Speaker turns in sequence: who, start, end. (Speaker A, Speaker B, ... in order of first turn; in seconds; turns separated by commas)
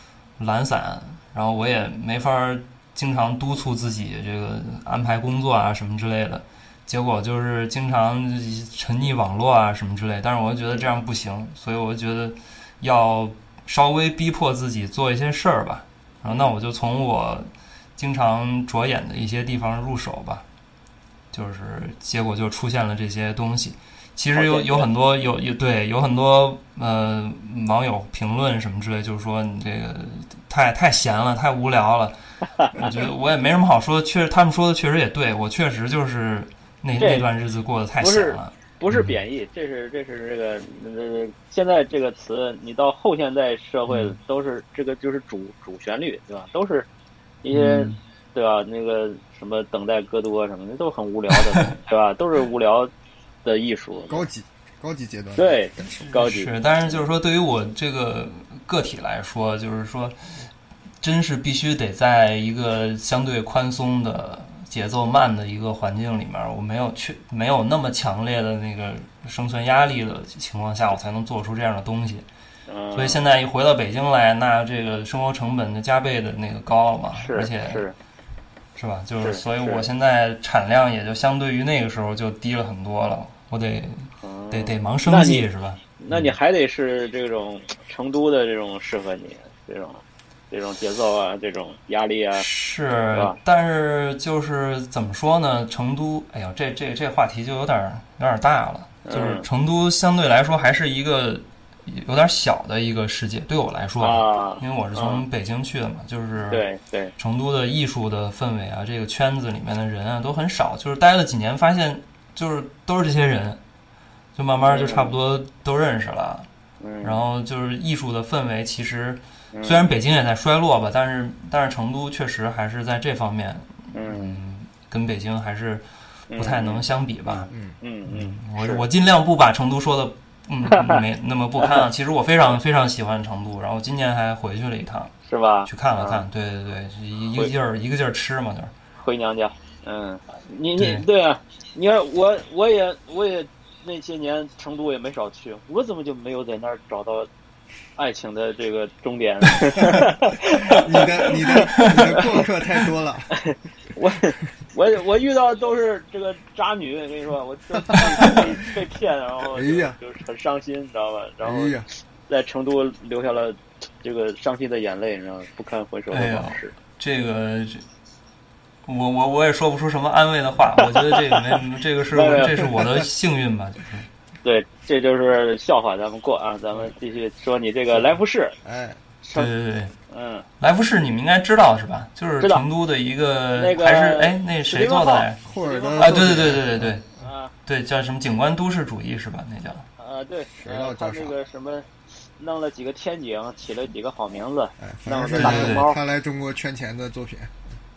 Speaker A: 0.4-20.4, Speaker B: 16.3-16.6, Speaker A: 21.3-32.2, Speaker B: 24.3-24.9, Speaker B: 32.6-32.9, Speaker A: 32.7-39.2, Speaker B: 37.0-37.3, Speaker B: 38.0-46.9, Speaker A: 43.9-44.1, Speaker B: 47.4-52.9, Speaker A: 47.5-48.0, Speaker B: 53.5-54.3, Speaker C: 54.1-56.1, Speaker B: 55.4-57.1, Speaker A: 56.1-60.2, Speaker A: 61.0-72.2, Speaker B: 72.7-73.2, Speaker A: 72.9-77.8, Speaker B: 77.2-78.0, Speaker A: 78.8-86.3, Speaker B: 79.2-79.9, Speaker B: 84.2-85.5, Speaker B: 86.0-92.5, Speaker A: 92.3-106.6, Speaker B: 99.1-99.5, Speaker B: 104.0-105.2, Speaker B: 106.5-107.1, Speaker A: 107.2-113.6, Speaker A: 114.3-116.5, Speaker B: 114.6-115.2, Speaker B: 116.8-117.2, Speaker A: 117.0-125.8, Speaker B: 119.5-119.9, Speaker B: 123.9-124.4, Speaker B: 126.3-128.8, Speaker A: 126.4-127.5, Speaker C: 127.5-127.8, Speaker A: 128.1-135.1, Speaker B: 130.7-131.0, Speaker B: 135.2-136.2, Speaker A: 135.7-138.7, Speaker B: 139.0-147.3, Speaker A: 140.8-141.1, Speaker B: 148.0-152.4, Speaker C: 150.7-153.3, Speaker A: 151.7-152.2, Speaker B: 153.3-166.7, Speaker C: 157.8-158.5, Speaker C: 159.5-160.0, Speaker C: 161.4-161.9, Speaker A: 166.1-167.8, Speaker A: 168.9-174.1, Speaker B: 170.8-171.4, Speaker B: 172.1-172.9, Speaker B: 174.4-178.6, Speaker C: 177.9-179.0, Speaker B: 179.2-179.5, Speaker A: 179.3-179.9, Speaker B: 180.1-180.5, Speaker A: 180.6-185.4, Speaker B: 183.6-186.6, Speaker C: 185.4-187.2, Speaker A: 186.0-187.0, Speaker B: 187.2-187.5, Speaker A: 187.7-189.9, Speaker B: 190.0-196.0, Speaker C: 190.6-191.3, Speaker C: 194.8-197.6, Speaker A: 195.4-195.9